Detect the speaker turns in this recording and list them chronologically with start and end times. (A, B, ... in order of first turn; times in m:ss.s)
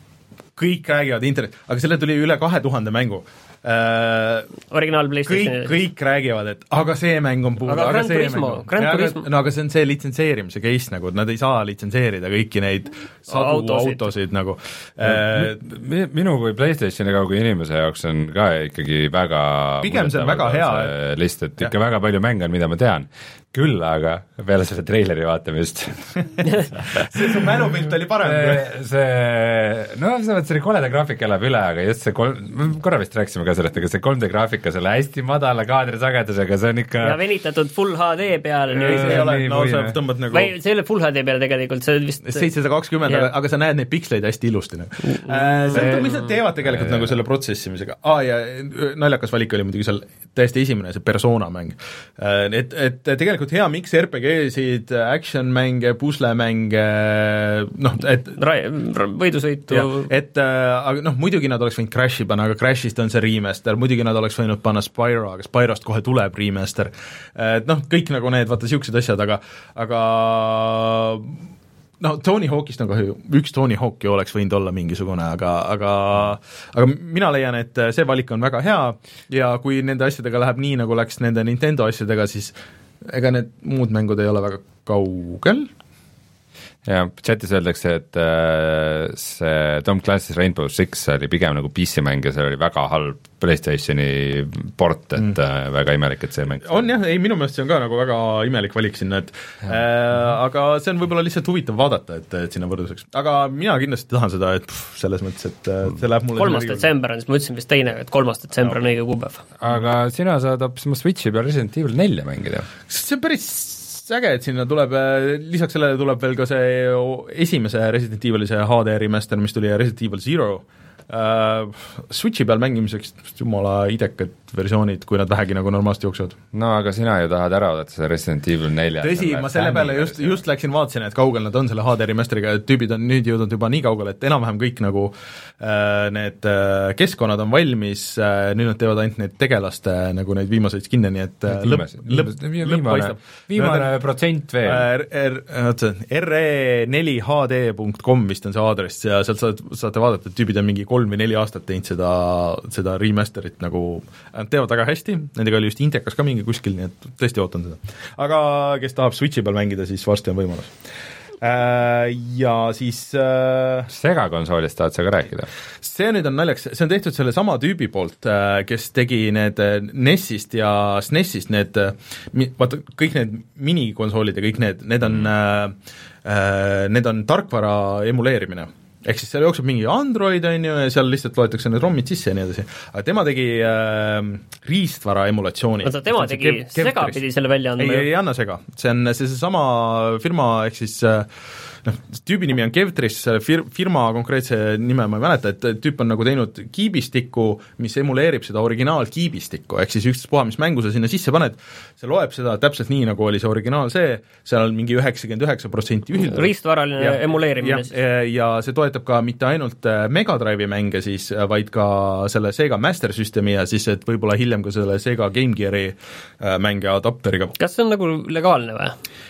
0:00.6-0:04.5 A
0:04.7-0:05.8 B
0:05.3-0:15.6 A
0:07.7-0:09.3 B
0:13.3-0:14.1 B
0:15.0-0:27.1 C
0:19.8-0:20.9 A
0:27.0-0:28.6 A
0:28.2-0:37.2 C
0:37.0-0:39.4 B
0:38.8-0:40.5 A
0:38.9-0:40.0 C
0:40.3-0:42.5 B
0:42.2-0:58.4 A
0:45.1-0:46.4 B
0:46.6-0:47.1 C
0:58.4-1:00.1 B
0:59.7-1:11.4 A
1:12.0-1:25.7 A
1:26.9-1:36.9 C
1:36.6-1:46.9 A
1:46.4-1:49.4 B
1:49.6-1:52.7 C
1:52.9-2:06.4 A
2:06.5-2:10.4 C
2:09.0-2:24.0 A
2:21.5-2:24.9 C
2:24.6-2:40.8 A
2:41.4-2:43.9 A
2:43.9-2:45.5 C
2:45.8-3:07.2 A
3:05.8-3:08.1 B
3:07.8-3:11.3 A
3:11.8-3:37.6 A
3:26.2-3:27.9 B
3:37.6-3:39.0 B